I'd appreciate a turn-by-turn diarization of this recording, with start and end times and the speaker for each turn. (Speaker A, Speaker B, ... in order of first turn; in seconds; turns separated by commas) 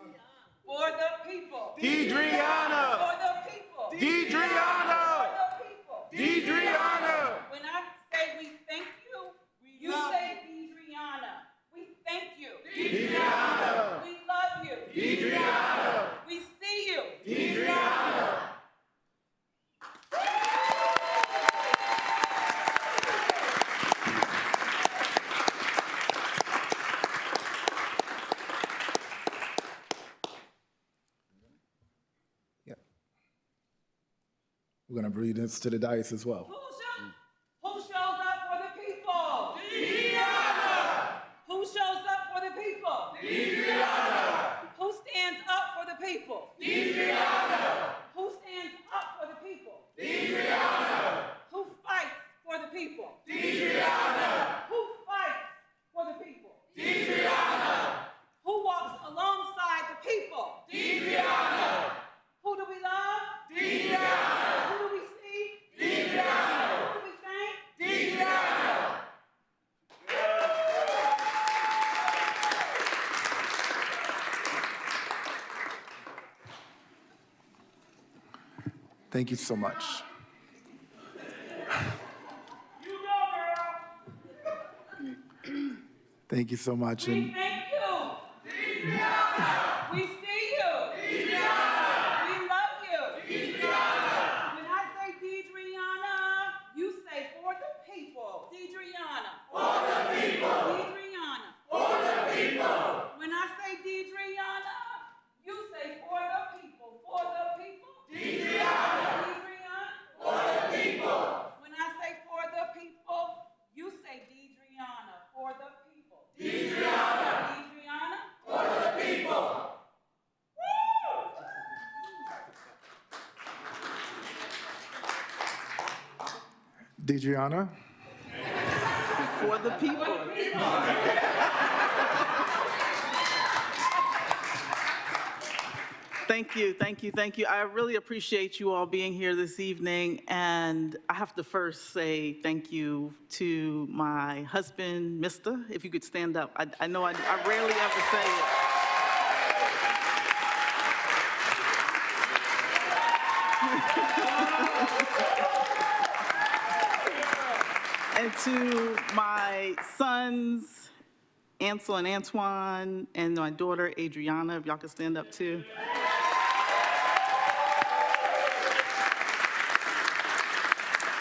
Speaker A: 0.6-18.2, Speaker B: 34.9-36.5, Speaker A: 36.5-57.5, Speaker A: 58.4-68.8, Speaker B: 79.1-80.0, Speaker A: 83.2-83.6, Speaker B: 86.3-87.4, Speaker A: 87.0-119.4, Speaker B: 127.0-127.7, Speaker C: 129.1-131.0, Speaker C: 136.2-148.6, Speaker C: 153.6-155.2, Speaker C: 158.1-160.9, Speaker C: 161.6-165.7